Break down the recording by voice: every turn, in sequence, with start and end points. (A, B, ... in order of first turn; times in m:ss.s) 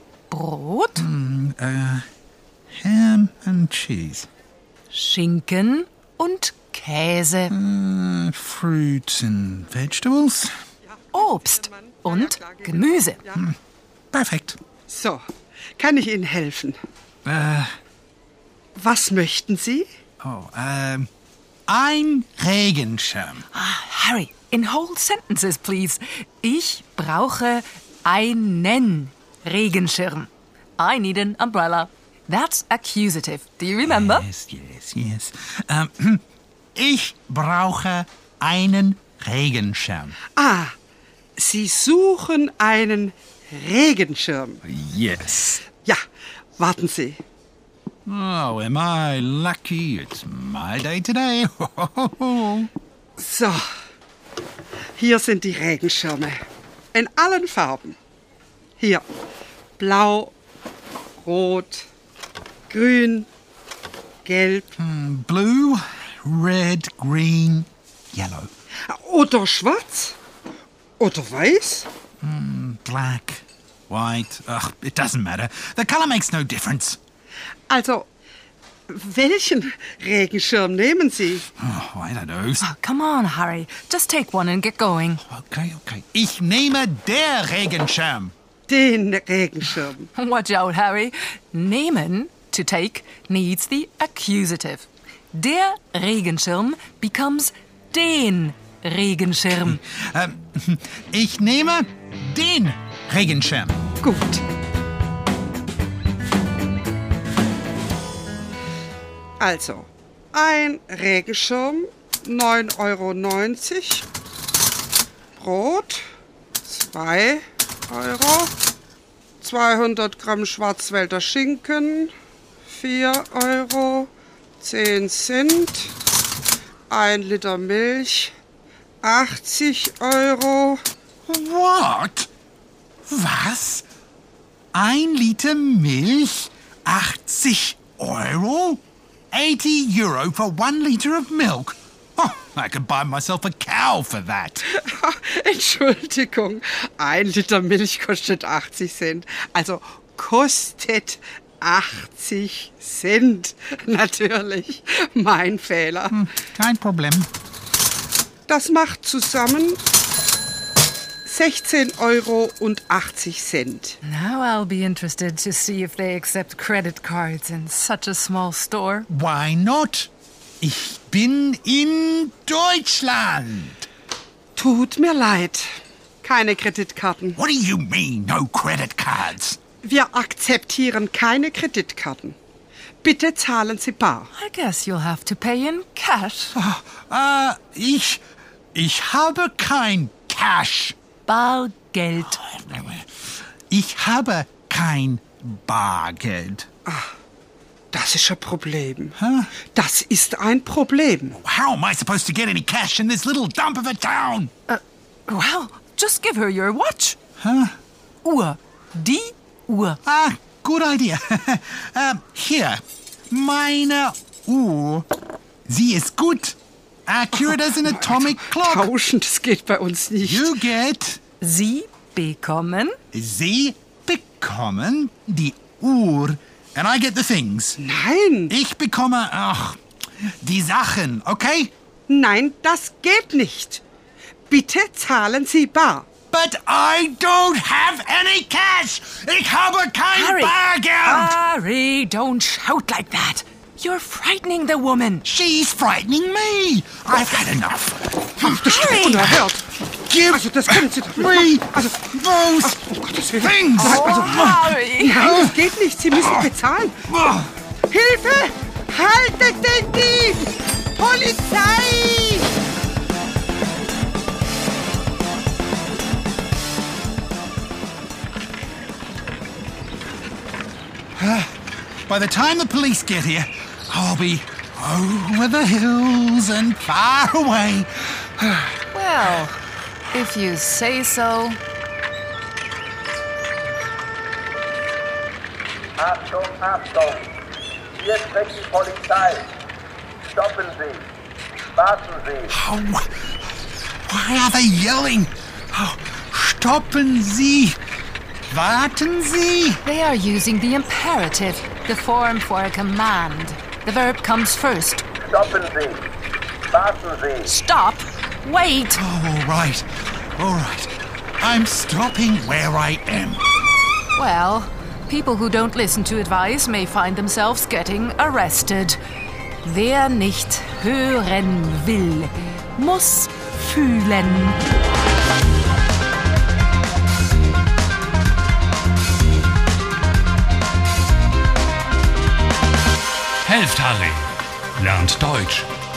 0:00.3-0:01.0 A
0:00.9-0:02.0 B
0:02.7-0:04.3 B
0:04.9-0:07.5 A
0:07.5-0:10.5 B
0:11.0-0:13.4 C
0:11.1-0:13.2 A
0:14.1-0:14.6 B
0:14.9-0:15.2 C
0:15.8-0:16.8 C
0:17.2-0:17.7 B
0:18.8-0:19.9 C
0:20.2-0:21.1 B
0:21.7-0:23.4 B
0:23.5-0:34.3 A
0:33.8-0:36.2 B
0:36.7-0:40.2 B
0:40.4-0:40.7 C
0:41.4-0:44.6 C
0:44.6-0:45.6 B
0:46.6-0:47.2 C
0:48.0-0:52.7 B
0:53.2-0:53.7 C
0:55.0-0:56.4 C
0:56.9-0:58.0 C
0:58.8-0:59.0 C
0:59.8-1:00.3 C
1:01.2-1:01.9 C
1:02.7-1:03.3 C
1:04.2-1:04.7 C
1:04.8-1:08.5 B
1:08.8-1:10.2 C
1:11.0-1:11.9 C
1:12.2-1:17.0 B
1:17.7-1:18.1 C
1:18.9-1:21.5 C
1:21.6-1:22.6 B
1:22.6-1:25.2 A
1:25.2-1:28.3 B
1:28.7-1:30.1 C
1:30.1-1:39.8 A
1:39.6-1:43.8 B
1:44.0-1:44.4 C
1:49.4-1:54.1 C
1:55.4-1:56.1 C
1:56.6-1:58.5 C
1:59.4-2:02.1 C
2:02.7-2:05.9 C
2:06.9-2:08.3 C
2:09.0-2:10.8 C
2:11.3-2:12.3 B
2:13.1-2:13.8 B
2:14.7-2:24.6 B
2:24.7-2:36.2 C
2:36.1-2:37.3 B
2:38.5-2:39.8 C
2:41.2-2:44.0 C
2:44.0-2:49.1 A
2:49.1-2:50.1 B
2:50.6-2:53.9 B
2:54.6-2:55.7 C
2:56.2-2:57.4 C
2:57.4-2:59.6 B
2:59.8-3:02.4 C
3:03.0-3:04.3 C
3:04.3-3:06.6 A
3:06.5-3:08.2 B
3:08.7-3:11.0 B
3:11.2-3:12.4 A
3:12.4-3:13.1 B
3:13.7-3:16.7 B
3:16.8-3:17.1 C
3:17.9-3:19.2 C
3:19.2-3:19.5 B
3:19.7-3:21.4 C
3:21.3-3:24.5 B
3:24.7-3:27.2 A
3:27.4-3:27.7 B
3:28.2-3:30.0 A
3:30.0-3:35.1 B
3:35.7-3:38.9 B
3:37.5-3:40.6 C
3:40.2-3:41.2 B
3:41.4-3:43.0 A
3:43.1-3:47.8 B
3:47.8-3:48.5 C
3:48.5-3:51.7 B
3:52.1-3:53.8 C
3:54.5-3:56.1 C
3:56.3-4:01.3 B
4:00.1-4:05.2 A
4:05.2-4:08.8 B
4:08.4-4:09.7 C
4:08.5-4:09.3 A
4:10.0-4:15.6 B
4:10.3-4:12.1 C
4:12.6-4:17.0 C
4:13.8-4:15.3 A
4:16.1-4:16.5 B
4:17.1-4:17.5 B
4:17.9-4:22.5 C
4:31.2-4:31.5 B
4:32.1-4:38.6 B
4:38.9-4:39.6 A
4:40.1-4:41.6 A
4:46.1-4:47.2 D
4:48.0-4:49.4 D
4:50.4-4:51.0 D
4:51.8-4:52.4 D
4:52.4-4:53.3 B
4:54.0-4:57.8 B
4:58.5-4:59.8 B
4:59.8-5:05.0 A
5:05.4-5:06.0 D
5:06.8-5:07.2 D
5:07.4-5:09.0 A
5:08.9-5:13.4 B
5:14.1-5:19.0 A
5:19.6-5:24.6 A
5:33.4-5:35.7 E